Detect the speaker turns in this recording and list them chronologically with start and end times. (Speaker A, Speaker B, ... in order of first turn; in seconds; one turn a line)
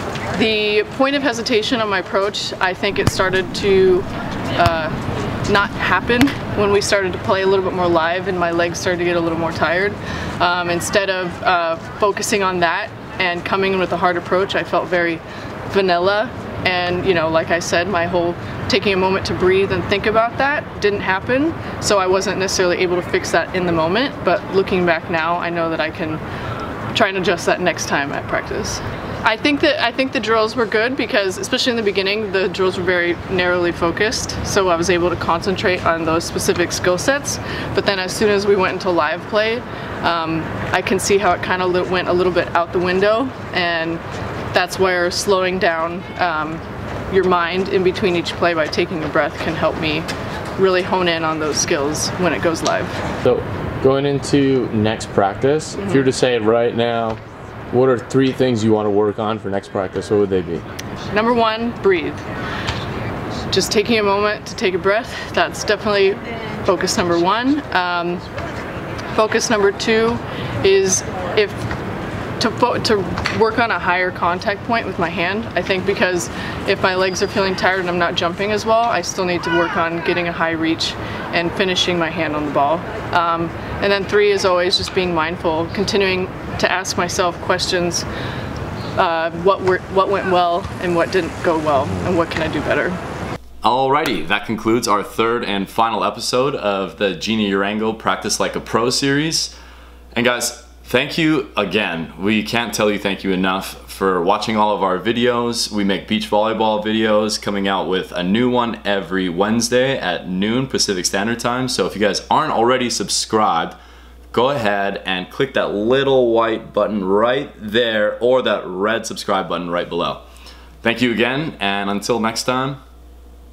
Speaker A: 0.3-4.9
Speaker A: 5.5-26.2
Speaker A: 26.9-44.0
Speaker A: 44.5-53.0
Speaker B: 53.2-57.2
Speaker A: 55.8-56.1
Speaker B: 57.7-60.6
Speaker A: 61.1-62.2
Speaker A: 63.5-68.2
Speaker A: 69.1-71.6
Speaker A: 72.4-88.1
Speaker A: 89.0-93.0
Speaker C: 93.6-99.5
Speaker C: 100.2-113.8
Speaker C: 114.3-120.2
Speaker C: 120.8-122.8